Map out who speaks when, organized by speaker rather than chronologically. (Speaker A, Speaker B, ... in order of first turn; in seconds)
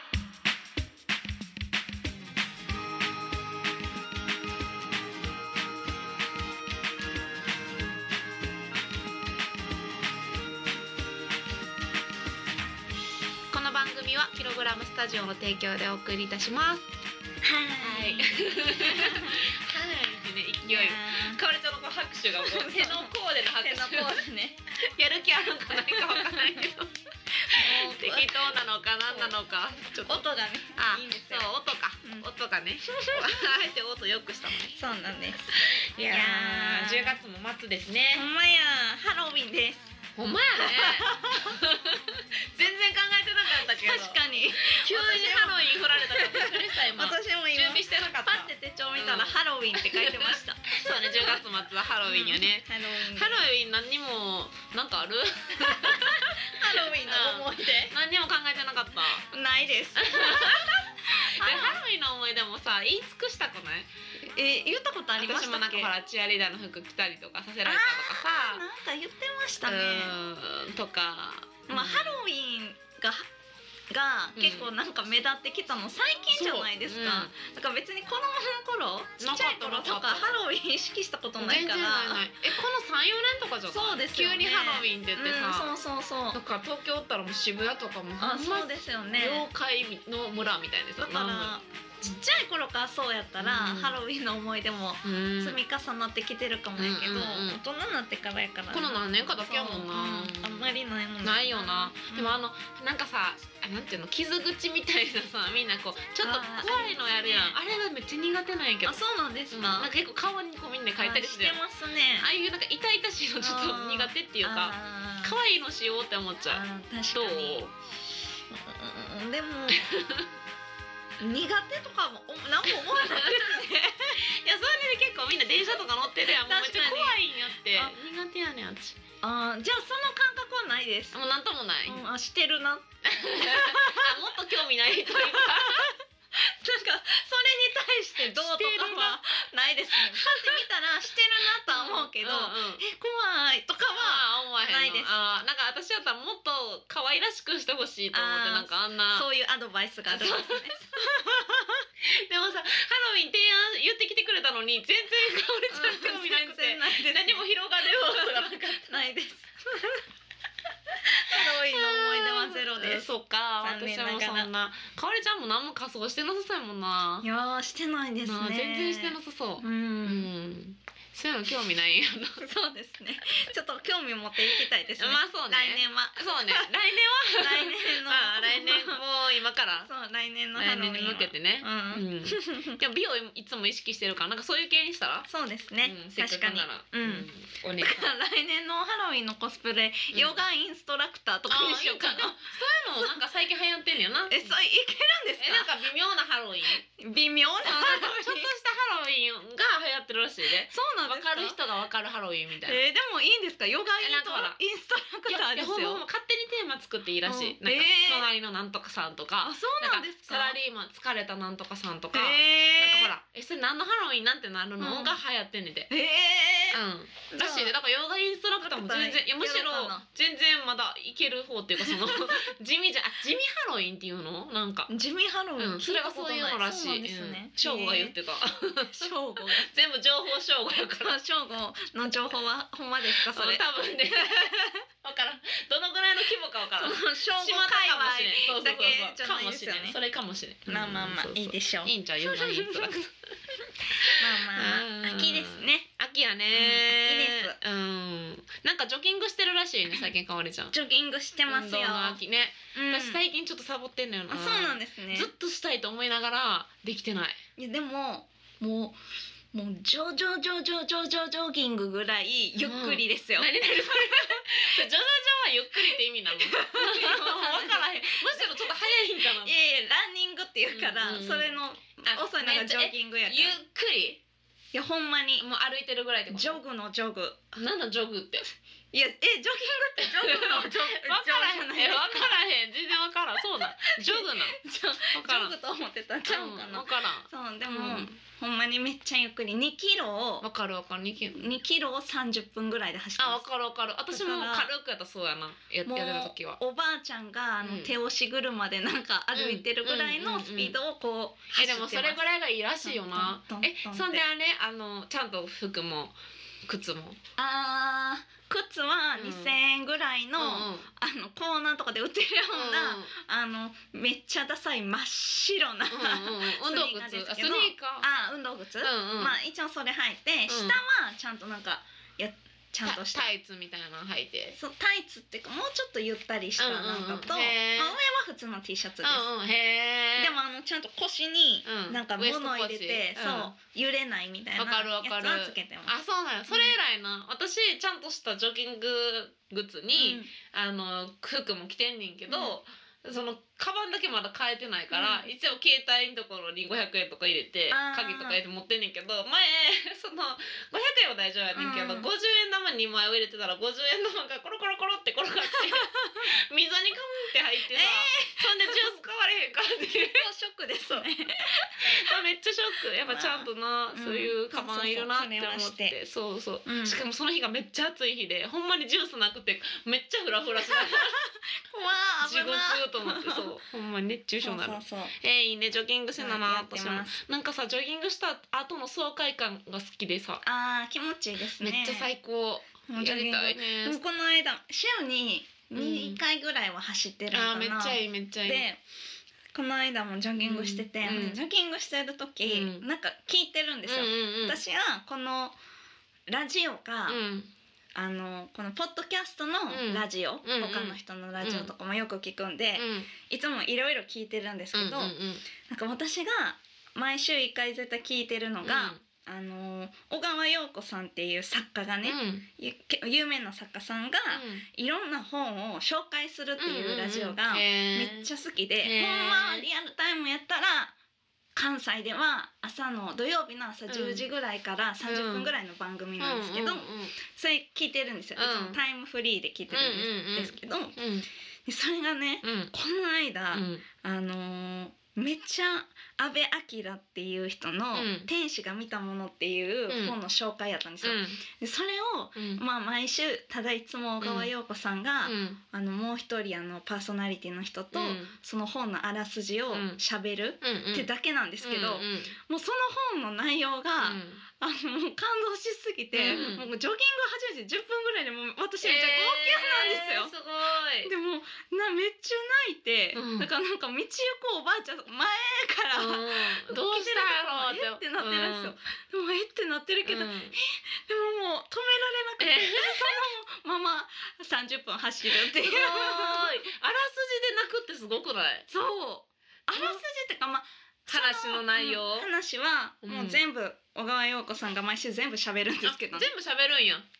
Speaker A: 13.5-16.9, 17.8-24.2, 24.9-26.9, 27.5-34.8, 35.5-38.3, 40.2-59.2, 60.0-63.9, 65.2-68.6, 69.6-72.2, 74.4-74.7, 76.3-77.3, 79.2-80.3, 81.4-85.7, 86.3-91.5, 93.4-94.0, 95.0-95.6, 96.8-97.6, 98.7-100.7, 101.2-111.6, 112.2-116.6, 117.1-117.7, 119.7-120.3, 122.7-123.6, 124.2-129.0, 131.1-132.1, 133.1-135.9, 138.2-139.2, 139.9-140.6, 141.6-142.8, 143.9-149.3, 150.1-150.8, 152.0-159.0, 161.3-167.3, 168.2-172.4, 174.6-179.9, 180.6-185.3, 185.8-188.1, 190.1-190.4, 191.5-194.6, 195.4-196.8, 197.7-202.8, 204.0-204.6, 205.3-215.9, 216.7-224.9, 225.6-231.2, 233.0-234.5, 235.0-243.1, 244.0-250.7, 251.5-257.4, 262.6-269.5, 270.7-271.5, 272.1-274.2, 275.4-276.6, 277.5-278.5, 280.0-284.6, 285.1-285.6, 286.3-288.1, 290.4-291.6, 293.2-296.6, 297.6-297.9, 299.3-300.8, 301.5-307.2, 309.2-309.6, 310.4-310.9, 312.5-313.1, 315.9-318.1, 318.8-319.4, 320.5-320.8, 322.9-324.6, 326.6-328.0, 329.0-330.4, 331.6-333.5, 334.6-360.3, 361.8-371.2, 372.2-380.4, 381.6-384.0, 385.8-386.2, 387.3-388.7, 390.4-391.4, 392.4-392.9, 393.9-394.6, 397.1-397.5, 399.7-401.7, 402.8-403.1, 404.7-405.4, 408.6-409.0, 412.0-412.5, 414.3-414.7, 416.6-418.3, 418.8-419.7, 423.9-424.2, 425.0-425.5, 426.2-427.1, 428.4-428.8, 429.7-431.3, 432.4-432.7, 433.5-433.8, 437.9-438.3, 439.9-440.2, 441.0-441.4, 442.4-442.6, 444.2-444.5, 445.2-445.6, 447.9-448.4, 449.7-450.0, 450.6-451.1, 451.6-452.4, 454.0-454.4, 456.1-456.7, 458.8-461.1, 463.1-463.5, 465.9-468.8, 470.1-470.6, 472.4-473.3, 475.3-478.7, 479.7-480.0, 481.1-482.3, 483.0-483.4, 485.8-487.1
Speaker B: 17.4-19.4, 20.7-21.4, 22.4-24.6, 25.6-26.6, 27.4-28.5, 29.1-29.3, 30.1-31.5, 32.8-33.5, 34.8-35.5, 36.1-37.2, 38.1-39.9, 40.6-41.6, 43.5-51.5, 52.0-53.4, 55.6-57.9, 59.3-61.8, 64.2-65.9, 67.6-70.2, 71.7-73.3, 73.9-82.2, 83.7-86.4, 88.2-89.5, 91.0-102.3, 106.2-107.5, 108.9-109.9, 111.0-112.3, 113.4-115.4, 116.5-117.7, 118.5-120.0, 121.2-124.2, 126.2-127.9, 129.2-131.2, 131.9-134.3, 135.1-145.1, 148.1-151.8, 155.7-160.0, 161.0-163.1, 163.6-164.5, 167.2-170.3, 172.4-176.7, 177.4-179.0, 179.8-182.8, 185.3-187.3, 187.8-192.5, 194.3-195.8, 196.8-198.5, 200.7-201.6, 202.7-206.0, 207.2-208.3, 209.4-210.6, 212.1-213.1, 214.8-215.2, 215.9-216.8, 217.3-217.7, 218.6-220.1, 221.8-222.5, 224.9-228.2, 228.9-229.7, 231.0-234.8, 236.8-240.0, 240.7-243.0, 244.0-245.9, 246.5-247.6, 250.7-252.2, 252.7-253.2, 254.3-255.3, 257.6-259.0, 259.5-264.8, 266.4-268.6, 269.4-273.6, 274.7-275.4, 276.3-277.4, 278.9-282.4, 283.6-290.5, 291.4-293.4, 294.1-294.7, 295.9-302.2, 302.8-304.2, 307.4-323.3, 324.6-329.3, 330.2-335.9, 339.9-340.3, 342.3-342.6, 344.9-345.3, 347.7-348.4, 351.5-352.1, 355.5-356.3, 357.7-358.9, 360.1-362.2, 363.1-366.0, 366.6-367.0, 370.7-373.5, 374.4-375.1, 376.2-377.2, 380.4-382.1, 382.9-388.8, 389.5-395.6, 396.3-397.2, 397.9-420.9, 421.6-431.0, 431.7-460.3, 461.0-476.6, 478.7-486.3